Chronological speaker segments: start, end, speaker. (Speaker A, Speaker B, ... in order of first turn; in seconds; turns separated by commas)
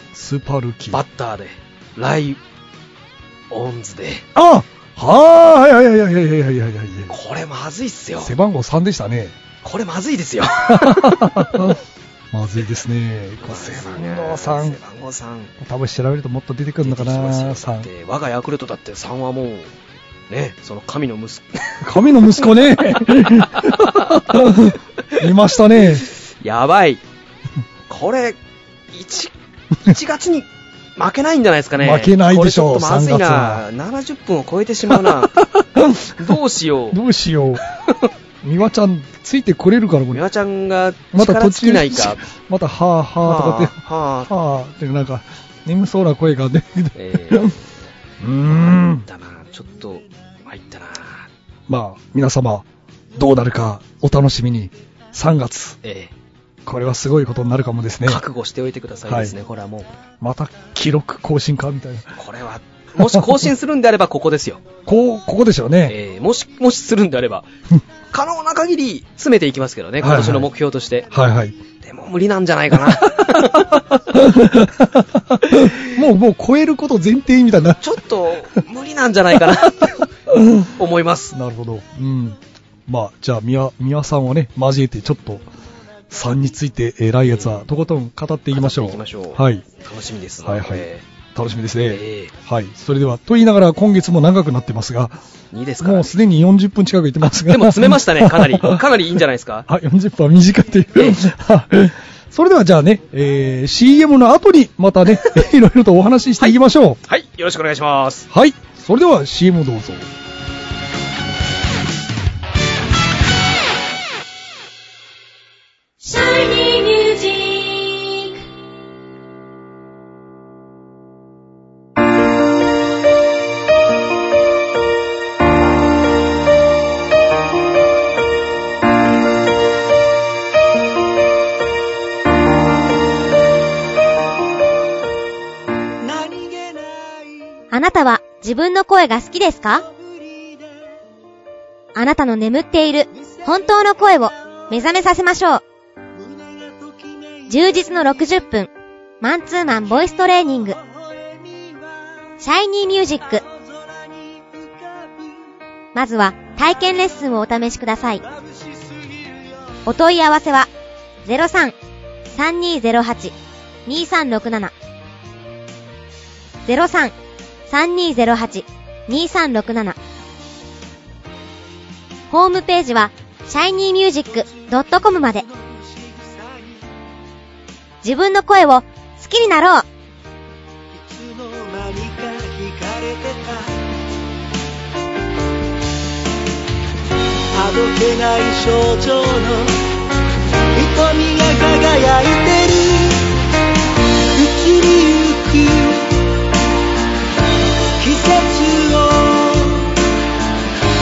Speaker A: 0.1-1.0, Speaker B: 0.9-2.4, Speaker B: 3.5-4.3, Speaker A: 4.3-7.1, Speaker B: 7.1-8.3, Speaker A: 8.2-9.4, Speaker B: 9.6-11.7, Speaker A: 10.7-11.8, Speaker A: 12.3-14.8, Speaker B: 13.4-15.5, Speaker A: 15.6-17.9, Speaker B: 16.8-19.7, Speaker B: 20.3-24.6, Speaker A: 21.8-26.1, Speaker B: 26.1-27.0, Speaker B: 27.9-28.4, Speaker B: 28.9-35.4, Speaker A: 31.8-33.6, Speaker A: 34.9-36.3, Speaker B: 36.1-37.0, Speaker A: 36.9-37.6, Speaker B: 37.6-38.1, Speaker A: 38.4-40.2, Speaker B: 40.1-42.2, Speaker A: 41.1-47.5, Speaker B: 43.2-44.3, Speaker B: 46.9-47.7, Speaker A: 48.2-49.0, Speaker B: 48.5-51.3, Speaker A: 51.7-55.8, Speaker B: 55.8-56.1, Speaker A: 56.6-58.2, Speaker B: 58.0-59.9, Speaker A: 59.0-59.3, Speaker A: 60.2-62.1, Speaker B: 62.2-64.6, Speaker A: 64.9-66.0, Speaker B: 65.9-67.5, Speaker B: 68.1-71.1, Speaker A: 70.0-70.5, Speaker A: 71.1-71.6, Speaker B: 71.8-73.9, Speaker A: 73.3-77.8, Speaker B: 75.5-75.8, Speaker B: 77.7-80.1, Speaker A: 80.3-80.7, Speaker B: 80.7-81.3, Speaker A: 81.3-85.5, Speaker A: 86.1-89.6, Speaker B: 87.3-87.6, Speaker B: 88.5-91.0, Speaker A: 90.4-95.2, Speaker B: 91.9-92.3, Speaker B: 95.5-96.2, Speaker A: 95.8-98.8, Speaker B: 97.3-99.7, Speaker A: 99.7-107.0, Speaker B: 106.4-108.3, Speaker A: 108.3-110.1, Speaker C: 136.0-137.3, Speaker D: 137.7-139.8, Speaker C: 140.2-140.6, Speaker D: 141.9-145.6, Speaker C: 146.2-147.5, Speaker D: 147.5-148.7, Speaker D: 149.2-150.8, Speaker C: 151.4-151.8, Speaker D: 152.4-153.4, Speaker C: 153.8-155.0, Speaker D: 155.9-158.2, Speaker C: 158.3-159.4, Speaker D: 159.9-160.7, Speaker D: 161.3-161.7, Speaker D: 162.3-163.3, Speaker D: 163.9-164.7, Speaker D: 166.7-167.1, Speaker D: 167.7-170.0, Speaker D: 172.3-175.4, Speaker C: 175.6-176.8, Speaker D: 178.0-179.8, Speaker C: 180.9-183.8, Speaker C: 187.5-189.8, Speaker C: 190.7-193.3, Speaker C: 194.3-196.2, Speaker C: 198.0-200.0